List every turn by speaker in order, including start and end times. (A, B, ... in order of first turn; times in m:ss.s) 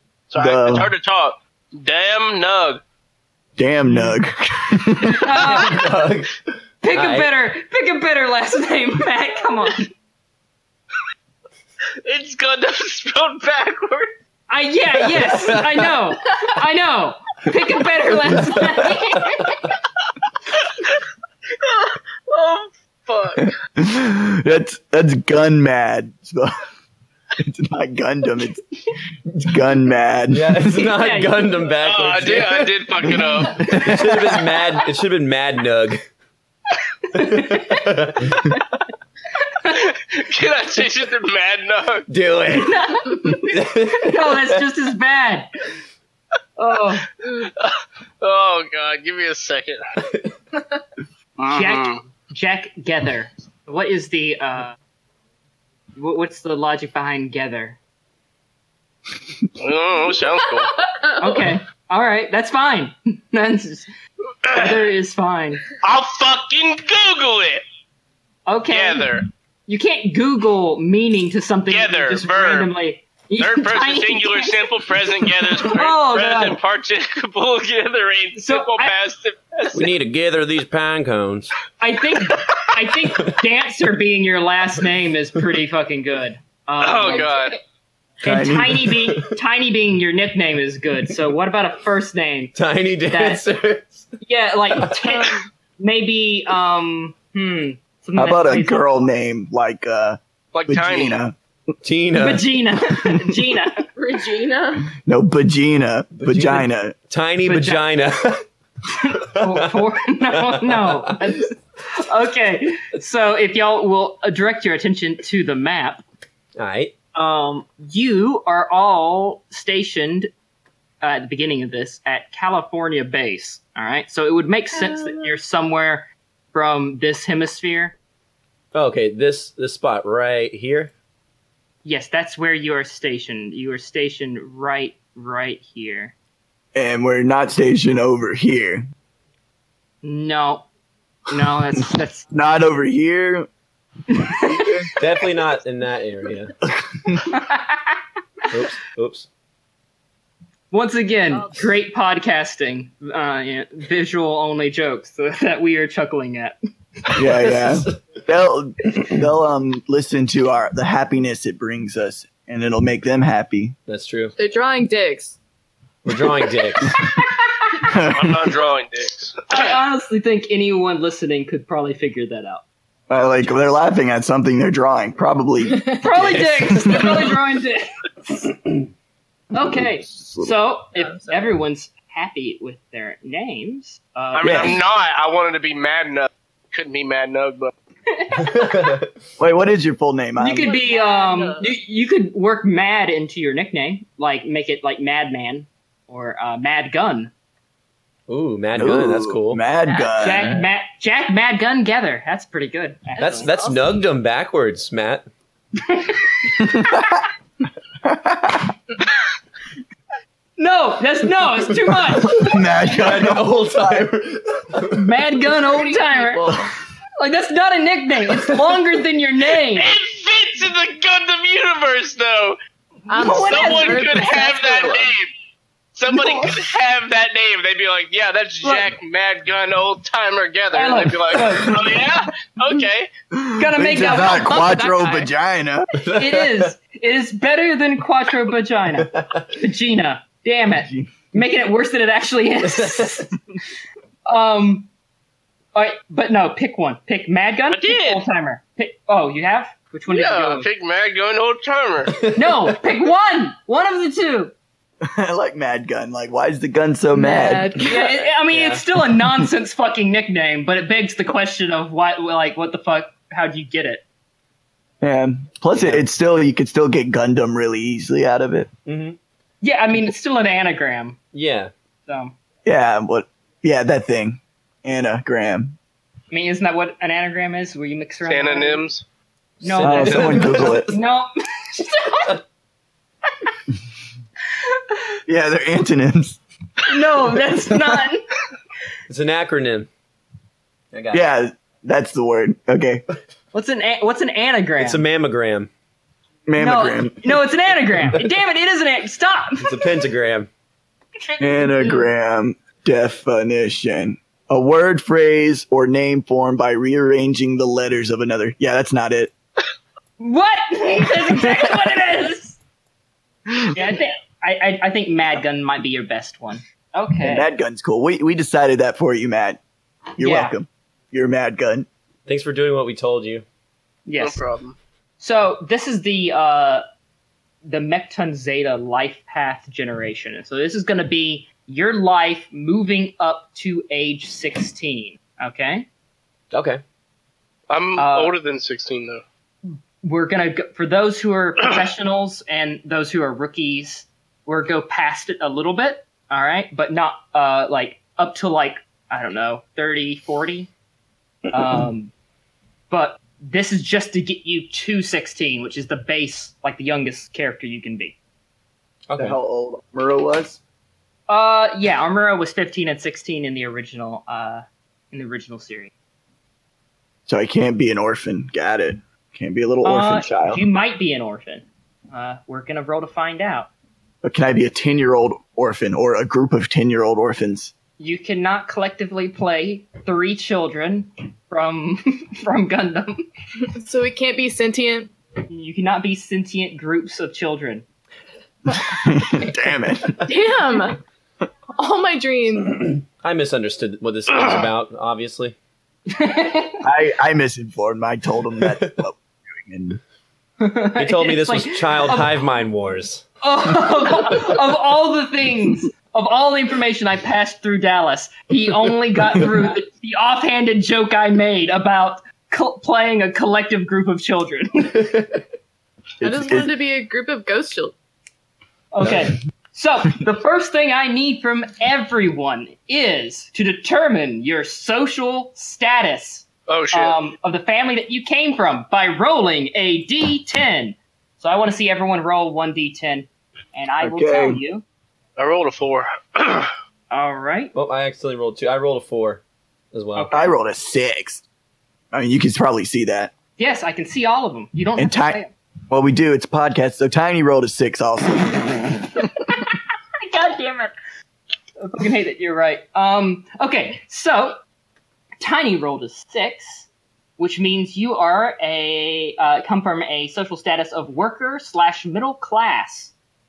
0:00.3-0:02.8 A
0:00.4-0:00.9 B
0:03.6-0:05.5 B
0:05.1-0:05.8 C
0:05.4-0:07.3 D
0:06.8-0:09.9 C
0:12.0-0:14.1 A
0:14.5-0:19.6 C
0:15.1-0:15.8 D
0:21.6-0:23.6 A
0:23.8-0:26.5 B
0:27.4-0:28.6 B
0:29.3-0:30.8 B
0:30.3-0:32.7 D
0:30.8-0:31.5 C
0:31.8-0:33.6 A
0:33.2-0:34.5 B
0:33.6-0:36.0 D
0:37.1-0:38.6 C
0:37.2-0:38.3 D
0:39.5-0:39.9 C
0:40.0-0:42.0 A
0:42.1-0:44.6 D
0:42.6-0:45.5 C
0:46.6-0:47.1 C
0:47.4-0:49.8 A
0:51.4-0:52.0 A
0:51.5-0:54.8 C
0:56.0-0:57.8 C
0:59.6-1:00.7 A
1:00.9-1:01.6 E
1:01.2-1:03.9 C
1:04.4-1:04.7 A
1:04.5-1:05.6 C
1:05.8-1:07.6 A
1:08.5-1:09.1 C
1:08.7-1:09.3 A
1:09.7-1:14.9 C
1:11.7-1:12.7 A
1:13.4-1:19.9 A
1:15.6-1:16.6 C
1:18.4-1:19.0 C
1:19.7-1:21.5 D
1:21.8-1:27.3 C
1:26.8-1:27.6 A
1:28.2-1:32.5 C
1:28.2-1:28.9 B
1:32.6-1:34.1 D
1:33.1-1:33.5 C
1:34.2-1:39.0 C
1:34.8-1:35.2 D
1:38.2-1:41.4 B
1:40.5-1:41.2 A
1:41.8-1:42.5 D
1:42.2-1:43.9 C
1:44.0-1:44.9 E
1:45.0-1:47.0 B
1:46.2-1:48.4 D
1:47.4-1:47.9 C
1:48.9-1:56.0 C
1:49.3-1:51.3 D
1:56.6-1:56.9 D
1:57.2-2:00.3 C
2:01.0-2:08.0 C
2:04.7-2:05.4 E
2:08.7-2:10.9 D
2:11.8-2:16.2 C
2:16.8-2:18.9 B
2:20.0-2:20.7 C
2:21.3-2:22.3 C
2:22.3-2:23.5 B
2:24.1-2:24.7 C
2:24.4-2:24.9 B
2:25.0-2:26.6 D
2:27.3-2:28.0 C
2:28.5-2:29.3 D
2:30.7-2:36.6 C
2:31.3-2:31.7 E
2:37.1-2:37.5 C
2:37.2-2:43.8 B
2:43.9-2:44.3 D
2:44.4-2:45.4 E
2:46.0-2:47.0 D
2:47.8-2:48.5 B
2:48.0-2:49.5 A
2:49.5-2:52.6 C
2:53.1-2:57.2 B
2:56.0-2:58.6 C
2:59.5-3:04.8 C
3:00.1-3:00.6 B
3:04.3-3:07.7 A
3:04.4-3:04.8 B
3:08.1-3:08.9 C
3:08.4-3:09.1 D
3:09.4-3:10.7 B
3:10.4-3:17.3 C
3:10.5-3:11.7 E
3:18.3-3:19.6 D
3:18.8-3:20.6 B
3:19.8-3:20.4 E
3:20.2-3:23.5 C
3:23.2-3:25.3 D
3:23.2-3:24.0 E
3:25.9-3:26.7 C
3:26.6-3:27.2 B
3:28.0-3:28.7 B
3:30.6-3:32.5 C
3:32.2-3:34.1 B
3:32.8-3:35.0 D
3:34.9-3:36.5 C
3:35.8-3:36.7 E
3:37.2-3:39.9 C
3:39.8-3:42.6 A
3:43.1-3:44.3 C
3:43.1-3:45.1 E
3:43.5-3:45.3 A
3:46.0-3:53.1 A
3:50.7-3:51.9 C
3:53.3-3:55.9 B
3:53.6-3:54.8 C
3:54.4-3:55.3 E
3:56.0-3:56.7 D
3:56.1-4:03.3 C
3:59.1-3:59.4 D
4:00.8-4:01.3 B
4:02.6-4:03.2 D
4:04.3-4:04.9 C
4:05.7-4:10.7 C
4:07.7-4:08.2 A
4:10.1-4:12.2 A
4:12.1-4:12.7 D
4:12.3-4:14.5 C
4:15.0-4:17.8 B
4:17.2-4:18.2 E
4:17.8-4:24.0 C
4:18.5-4:18.8 D
4:25.0-4:28.7 B
4:25.8-4:26.0 D
4:28.9-4:29.2 D
4:29.6-4:31.2 C
4:31.3-4:31.7 D
4:32.1-4:32.4 C
4:32.6-4:35.8 B
4:36.3-4:38.9 C
4:38.3-4:39.0 A
4:39.6-4:42.4 C
4:39.6-4:40.9 D
4:39.8-4:41.0 B
4:45.3-4:46.4 B
4:46.8-4:48.3 C
4:49.1-4:49.9 D
4:50.9-4:51.2 D
4:51.1-4:53.0 B
4:53.5-4:55.0 C
4:54.8-4:55.7 D
4:56.5-4:57.4 B
4:56.6-4:59.9 C
4:59.6-5:00.5 D
5:01.3-5:02.1 C
5:01.4-5:09.3 B
5:10.2-5:12.6 C
5:13.7-5:17.5 C
5:17.2-5:19.6 B
5:20.2-5:21.9 B
5:20.2-5:20.6 C
5:22.3-5:23.4 D
5:24.1-5:24.4 C
5:24.2-5:24.8 A
5:25.2-5:26.8 C
5:27.6-5:35.9 C
5:36.5-5:36.8 D
5:37.7-5:39.2 A
5:38.0-5:38.4 C
5:39.6-5:50.7 C
5:51.5-5:52.1 C
5:52.9-5:58.2 C
5:59.1-5:59.4 D
5:59.2-6:00.6 B
6:01.3-6:05.9 C
6:07.3-6:10.6 B
6:09.8-6:13.7 C
6:14.2-6:17.7 B
6:18.0-6:23.2 C
6:23.8-6:25.1 E
6:25.5-6:27.9 C
6:28.9-6:30.2 B
6:30.2-6:31.0 E
6:31.8-6:33.0 E
6:33.2-6:35.6 D
6:36.1-6:36.8 C
6:36.8-6:40.0 B
6:38.6-6:38.9 D
6:40.6-6:42.4 C
6:41.0-6:43.3 D
6:43.4-6:55.2 C
6:56.2-6:56.7 B
6:56.2-6:57.9 E
6:58.9-7:14.8 C
7:06.7-7:07.2 A
7:14.0-7:14.6 B
7:15.4-7:16.7 A
7:17.1-7:17.7 C
7:17.7-7:20.3 D
7:20.2-7:20.6 C
7:20.3-7:21.4 B
7:22.1-7:23.3 B
7:23.6-7:25.5 C
7:25.0-7:29.0 B
7:30.2-7:30.9 C
7:31.8-7:34.6 C
7:35.4-7:43.1 C